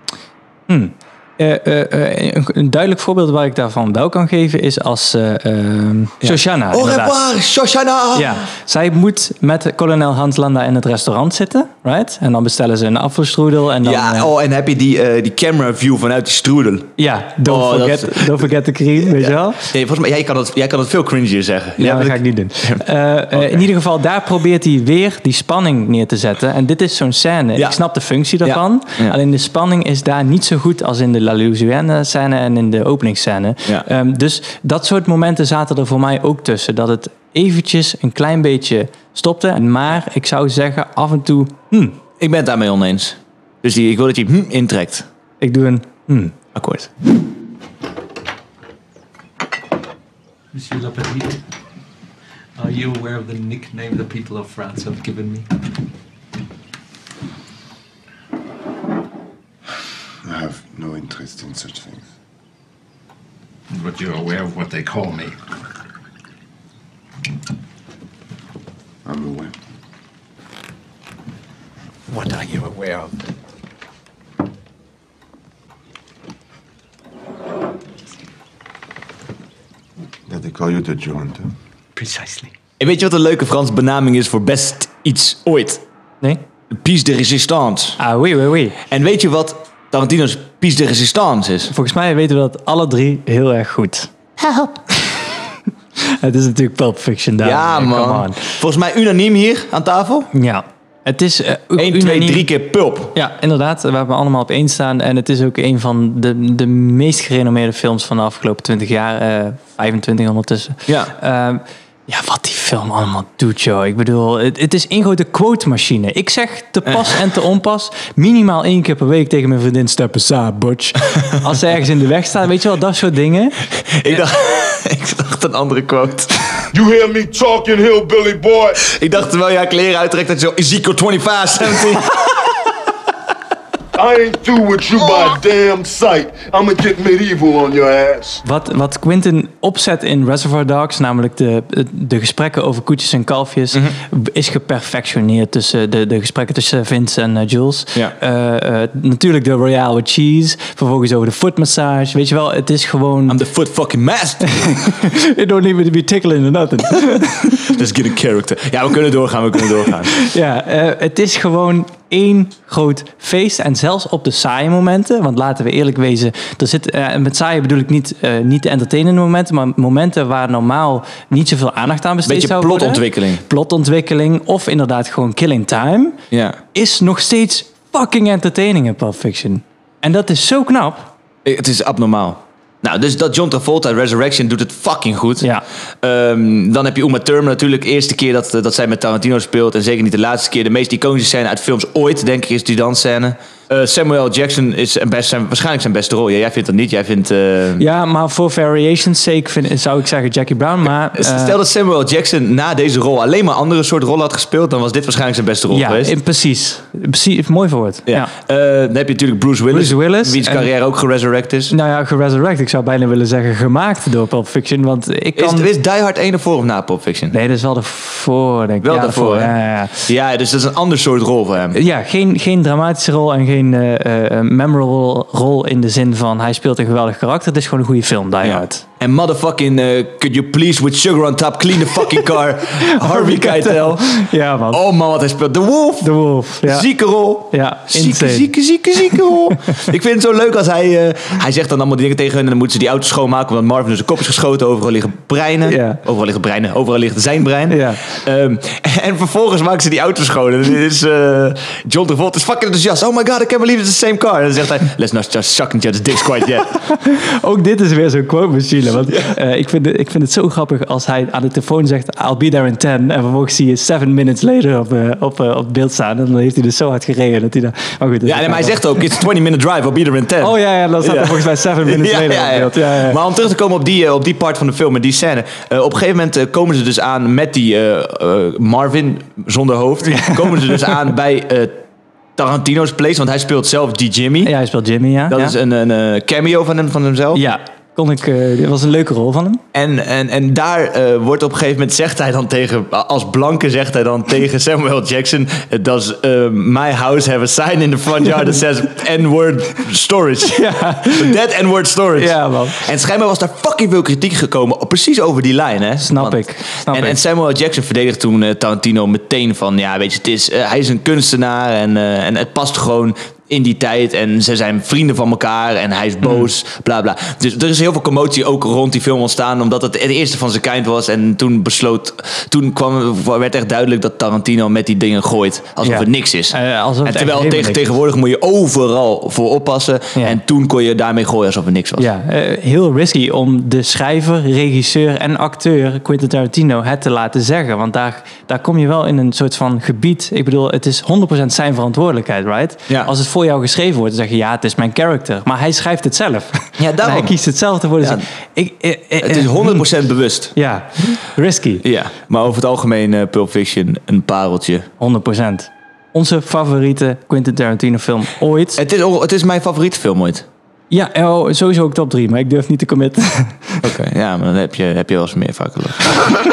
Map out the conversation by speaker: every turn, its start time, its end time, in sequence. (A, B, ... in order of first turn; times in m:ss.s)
0:00.7-0:07.2 A
0:06.2-0:08.4 B
0:08.1-0:14.3 A
0:13.8-0:16.9 B
0:17.0-0:19.6 A
0:17.4-0:18.5 B
0:19.0-0:23.6 B
0:21.8-0:41.9 A
0:28.4-0:29.2 B
0:42.2-0:45.0 B
0:45.4-0:46.3 A
0:46.5-0:46.9 B
0:50.5-0:51.4 C
0:52.6-0:55.4 C
1:00.2-1:02.1 D
1:03.7-1:05.3 C
1:09.0-1:09.5 D
1:12.1-1:13.1 C
1:20.3-1:21.5 D
1:22.8-1:25.8 B
1:26.7-1:28.0 B
1:28.0-1:28.8 A
1:28.9-1:31.7 B
1:31.7-1:34.1 A
1:34.4-1:34.8 B
1:34.9-1:35.3 A
1:36.0-1:38.5 A
1:37.4-1:40.3 B
1:40.3-1:42.5 A
1:41.8-1:43.1 B
1:43.1-2:03.6 A
1:50.9-1:51.1 B
1:56.8-1:57.2 B
2:03.9-2:06.3 B
2:06.7-2:08.8 E
2:08.8-2:12.1 B
2:14.0-2:18.4 E
2:18.4-2:33.4 A
2:33.3-2:34.9 B
2:34.5-2:37.7 A
2:37.6-2:40.2 B
2:40.2-2:56.2 A
2:52.2-2:53.4 B
2:56.3-2:56.6 B
2:56.7-3:01.1 A
3:01.4-3:05.5 B
3:06.0-3:17.8 B
3:17.8-3:21.6 A
3:21.1-3:26.1 B
3:25.7-3:28.3 A
3:28.1-3:31.7 B
3:29.7-3:30.7 A
3:31.7-3:35.7 A
3:35.4-3:37.4 B
3:37.3-3:40.1 A
3:38.8-3:41.8 B
3:41.7-3:48.8 A
3:48.4-3:56.1 B
3:52.8-3:54.8 A
3:56.0-3:56.8 A
3:56.6-4:16.8 B
3:57.5-3:59.8 A
4:05.6-4:06.0 A
4:07.7-4:08.0 A
4:16.9-4:29.2 A
4:28.2-4:41.8 B
4:30.4-4:33.2 A
4:40.0-4:41.0 A
4:42.4-4:44.5 B
4:44.4-4:45.6 A
4:45.3-4:47.4 B
4:47.3-4:49.6 A
4:49.7-5:32.1 B
5:00.5-5:01.4 A
5:02.2-5:02.8 A
5:06.0-5:07.2 A
5:25.8-5:27.9 A
5:32.0-5:49.8 A
5:46.8-5:47.3 B
5:49.2-5:50.5 B
5:50.5-5:51.8 A
5:51.8-5:54.9 B
5:55.0-5:58.8 A
5:58.8-6:00.4 B
6:00.9-6:03.9 A
6:03.8-6:06.2 B